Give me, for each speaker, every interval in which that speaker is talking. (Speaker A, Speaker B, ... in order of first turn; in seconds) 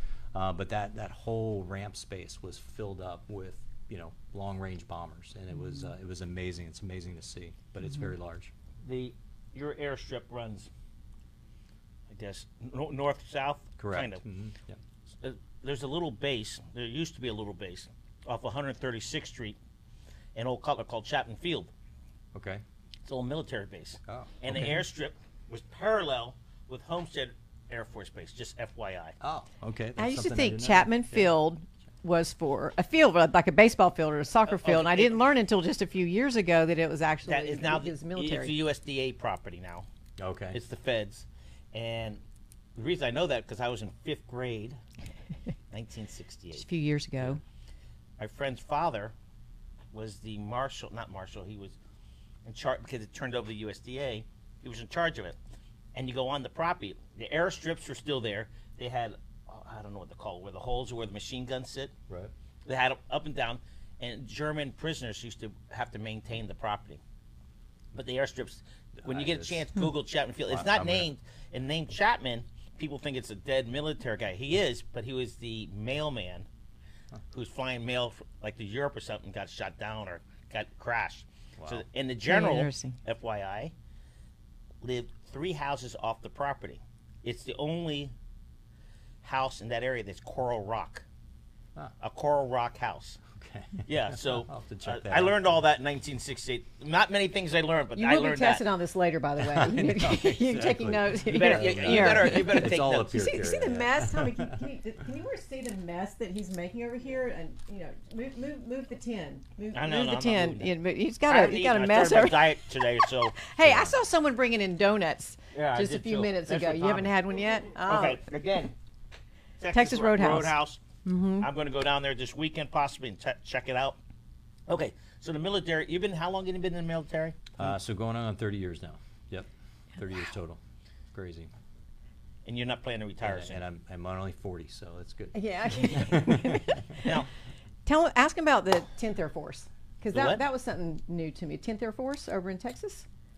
Speaker A: 0.3-8.5, 13.8-14.8, 22.3-22.6, 24.1-24.6, 29.2-31.3, 40.2-40.6, 69.0-69.7, 70.5-71.1, 81.6-81.8, 93.3-95.4, 99.4-104.6, 113.6-114.0, 127.6-130.6, 131.1-131.5, 133.2-137.0
Speaker B: 8.8-10.7, 12.1-14.2, 15.2-19.6, 20.4-21.7, 23.1-29.1, 34.5-35.2, 37.3-39.9, 40.5-42.2, 42.8-44.8, 45.7-46.6, 48.2-49.1, 49.9-51.8, 52.5-55.4, 55.9-61.9, 62.6-67.0, 67.9-76.5, 77.3-83.7, 84.8-88.1, 89.2-91.0, 92.0-93.2, 93.9-98.6, 101.3-103.3, 109.7-110.7, 111.3-113.4, 115.5-117.1, 117.8-118.7, 119.6-120.8, 121.4-124.0, 124.7-127.4, 132.4-133.6, 140.1-140.4
Speaker C: 30.0-38.5, 46.5-47.4, 82.3-83.0, 98.0-112.7, 113.3-118.2, 119.7-121.5, 135.3-137.2, 137.9-143.1